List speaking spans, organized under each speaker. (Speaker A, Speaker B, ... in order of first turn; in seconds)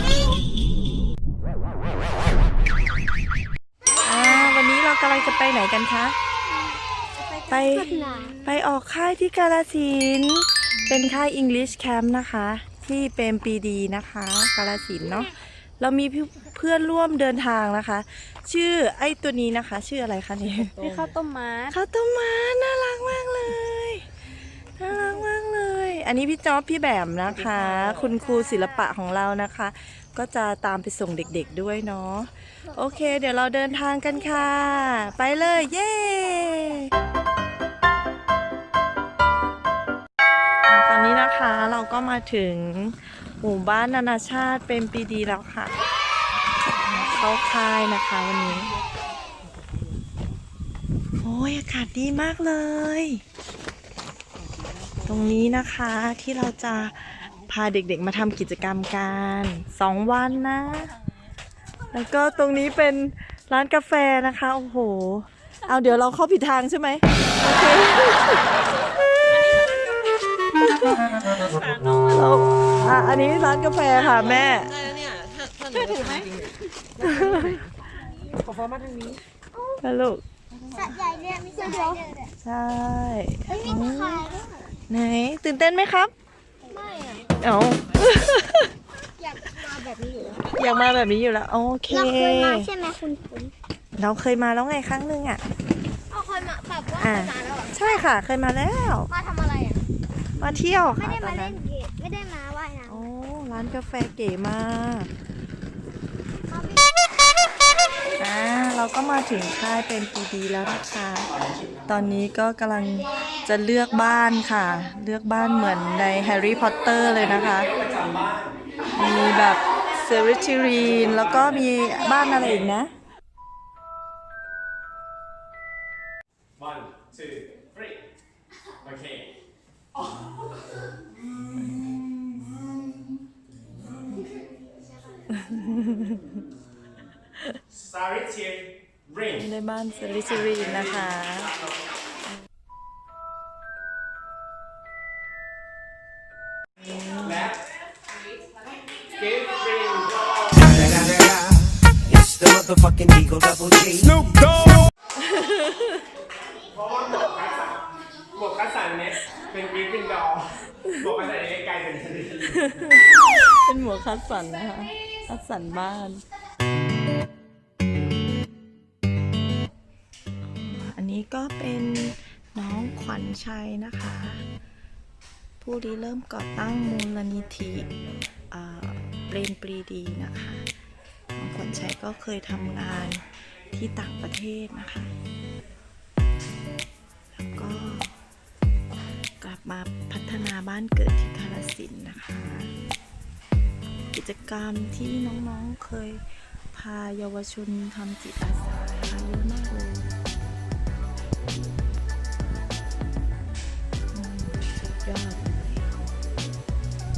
Speaker A: 4.0-6.2, 7.5-21.1, 21.7-24.1, 24.8-36.9, 40.7-45.8, 46.7-48.7, 51.2-53.2, 55.0-60.9, 61.9-68.6, 71.8-74.9, 77.0-77.7, 79.8-80.2, 82.4-86.1, 87.4-88.7, 90.5-92.7, 93.9-95.4, 97.0-99.1, 100.4-101.6, 102.8-105.1, 108.2-111.3, 111.9-117.9, 118.9-122.9, 135.3-136.4, 139.3-141.6, 146.8-147.5, 155.2-156.0, 160.7-161.4, 162.3-166.2, 170.6-174.4, 175.6-177.9, 178.5-180.7, 181.4-185.1, 187.4-188.1, 189.4-192.7, 194.1-200.1, 204.1-206.1
Speaker B: 7.8-8.2, 80.8-82.2, 83.9-84.2, 86.7-87.1, 89.2-90.4, 91.9-93.5, 96.1-97.5, 99.1-99.8, 101.2-102.9
Speaker C: 20.6-21.7, 74.9-76.5
Speaker D: 149.4-150.0, 157.3-157.7, 158.4-160.3, 161.6-162.1
Speaker E: 150.5-154.5